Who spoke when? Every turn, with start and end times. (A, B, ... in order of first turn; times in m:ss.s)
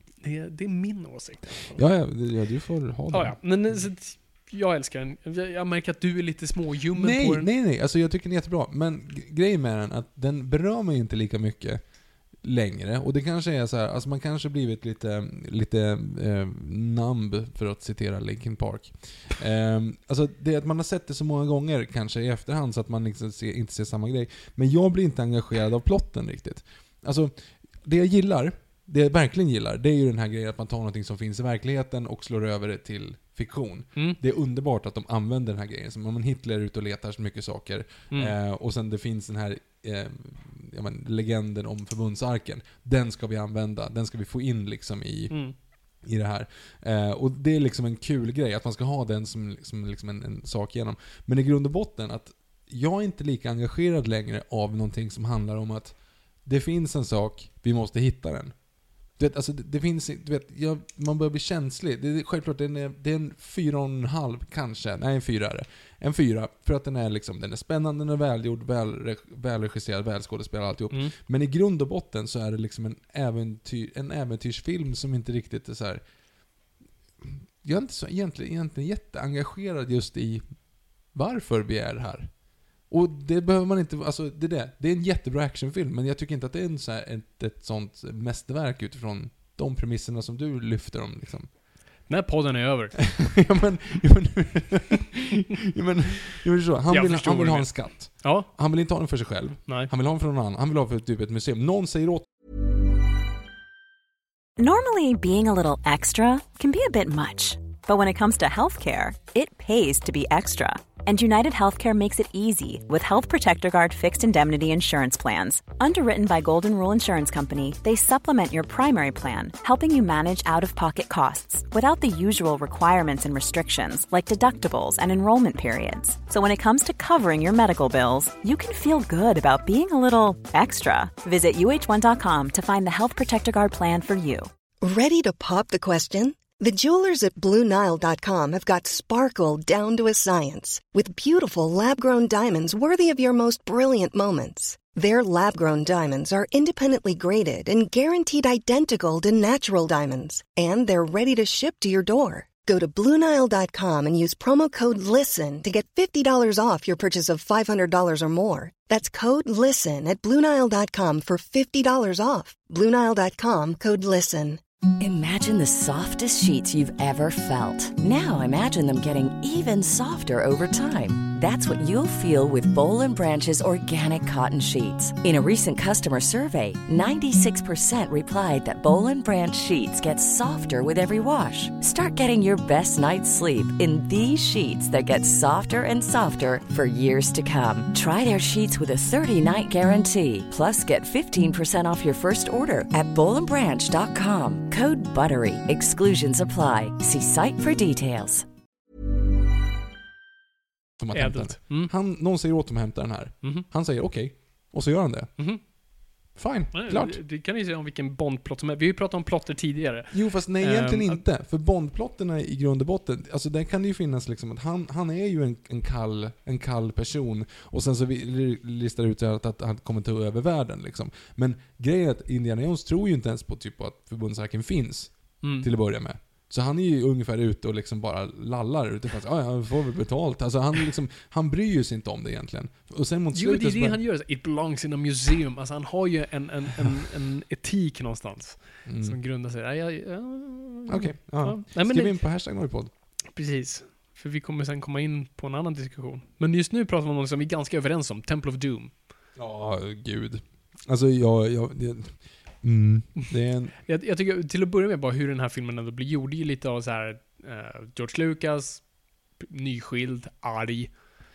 0:00.2-0:01.8 A
0:01.7-0:03.9 B
0:03.1-0:07.5 A
0:06.9-0:58.6 B
0:38.1-0:38.4 A
0:45.3-0:45.6 A
0:59.2-1:16.0 B
1:17.2-1:31.5 B
1:32.1-1:33.0 A
1:33.1-1:42.3 B
1:36.9-1:38.5 A
1:44.6-2:14.5 C
2:14.8-2:44.6 D
2:45.0-3:18.5 E
3:21.0-3:25.7 B
3:21.1-3:21.9 A
3:26.4-3:27.2 B
3:26.7-3:31.2 A
3:30.1-3:54.0 B
3:45.4-3:45.7 A
3:53.3-4:02.2 A
3:58.9-3:59.2 B
4:00.9-4:02.9 B
4:03.3-4:08.9 A
4:09.4-4:13.8 B
4:13.8-4:21.0 A